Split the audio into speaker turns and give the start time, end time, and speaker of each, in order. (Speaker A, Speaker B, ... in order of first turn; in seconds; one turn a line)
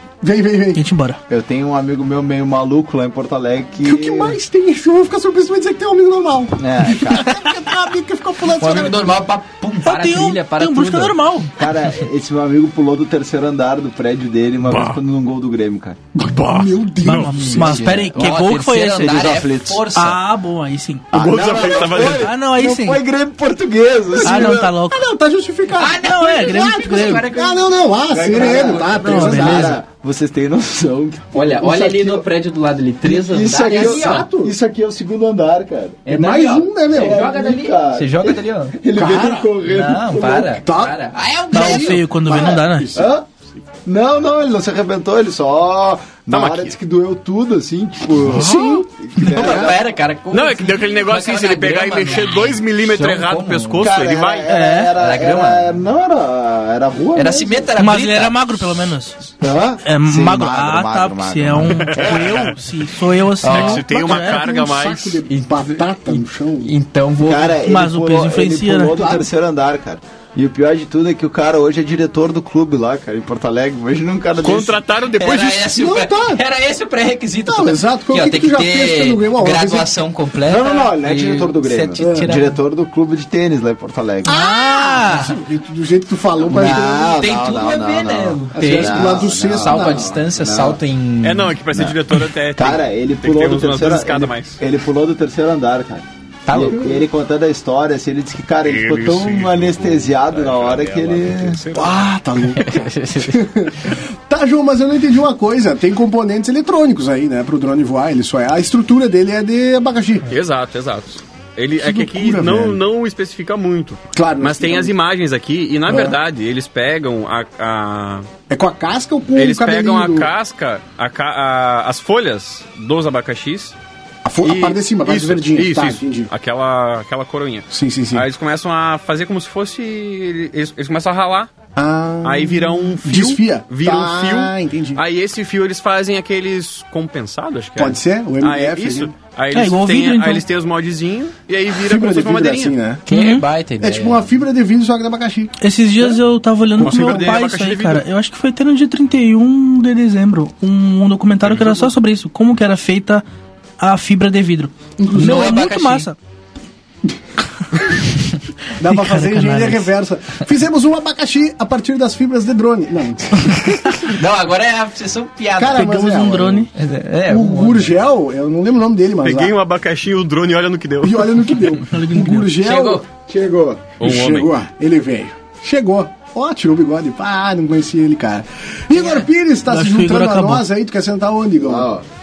Speaker A: 0.2-0.8
Speaker B: 0.8-1.2
Speaker C: 1.3-4.4
Speaker A: 3.8-9.2
Speaker C: 6.6-7.4
Speaker D: 8.6-11.2
Speaker B: 9.8-11.5
Speaker C: 11.6-16.0
Speaker E: 14.6-15.0
Speaker A: 16.2-17.9
Speaker E: 16.2-17.3
Speaker B: 17.0-21.1
Speaker D: 17.3-20.2
Speaker C: 19.1-19.8
Speaker E: 21.1-22.3
Speaker C: 21.1-24.7
Speaker B: 22.0-23.0
Speaker A: 24.1-29.8
Speaker B: 24.2-25.0
Speaker D: 25.8-29.7
Speaker B: 25.9-27.3
Speaker C: 28.1-32.2
Speaker B: 29.0-29.8
Speaker D: 31.3-34.3
Speaker C: 33.0-36.0
Speaker A: 33.5-34.5
Speaker D: 36.0-38.8
Speaker A: 36.1-37.3
Speaker C: 36.9-40.6
Speaker A: 38.9-39.5
Speaker D: 39.6-42.0
Speaker A: 40.5-41.0
Speaker B: 41.5-42.9
Speaker A: 41.5-43.1
Speaker C: 42.9-43.3
Speaker C: 43.8-49.8
Speaker E: 46.3-46.8
Speaker A: 48.3-49.7
Speaker D: 49.2-53.9
Speaker E: 50.3-54.5
Speaker C: 53.8-57.7
Speaker B: 54.5-54.9
Speaker D: 54.9-55.8
Speaker D: 57.1-58.4
Speaker B: 57.8-59.2
Speaker C: 59.4-62.5
Speaker B: 59.8-64.4
Speaker E: 61.7-62.5
Speaker E: 63.4-65.2
Speaker A: 63.5-66.7
Speaker D: 65.3-67.6
Speaker C: 67.2-74.8
Speaker B: 67.6-69.0
Speaker A: 68.9-69.3
Speaker E: 74.4-75.7
Speaker D: 75.2-82.6
Speaker A: 75.7-76.4
Speaker A: 77.5-79.9
Speaker C: 80.4-84.3
Speaker A: 82.0-82.3
Speaker A: 84.2-87.2
Speaker B: 84.3-85.3
Speaker D: 85.0-85.3
Speaker C: 86.4-90.8
Speaker D: 86.5-91.5
Speaker A: 88.5-90.2
Speaker E: 91.2-94.6
Speaker C: 92.5-101.6
Speaker D: 96.5-96.9
Speaker A: 96.5-97.0
Speaker E: 98.6-102.0
Speaker A: 101.7-110.3
Speaker D: 102.5-103.4
Speaker E: 110.3-118.3
Speaker A: 111.8-112.8
Speaker A: 114.1-114.9
Speaker A: 115.9-116.2
Speaker A: 118.5-120.3
Speaker E: 119.3-123.7
Speaker A: 124.2-126.3
Speaker E: 124.4-131.5
Speaker A: 127.7-128.2
Speaker A: 131.8-135.0
Speaker E: 132.2-142.7
Speaker A: 137.8-139.1
Speaker B: 139.5-140.4
Speaker A: 141.8-143.0
Speaker D: 143.1-144.3
Speaker B: 143.1-143.4
Speaker A: 143.8-145.5
Speaker B: 145.6-153.2
Speaker E: 146.8-148.0
Speaker A: 146.8-147.3
Speaker E: 151.4-151.9
Speaker B: 153.8-156.2
Speaker A: 155.0-155.6
Speaker D: 155.2-156.1
Speaker A: 158.8-163.9
Speaker B: 158.8-159.9
Speaker D: 164.1-165.9
Speaker A: 165.6-166.7
Speaker B: 165.8-166.7
Speaker D: 166.7-167.9
Speaker A: 167.2-169.5
Speaker E: 169.2-171.6
Speaker A: 171.0-173.0
Speaker B: 171.9-172.5
Speaker D: 172.6-173.1
Speaker C: 173.3-173.8
Speaker A: 173.9-181.9
Speaker E: 174.0-174.5
Speaker D: 178.9-179.2
Speaker B: 179.7-180.6
Speaker C: 181.6-182.0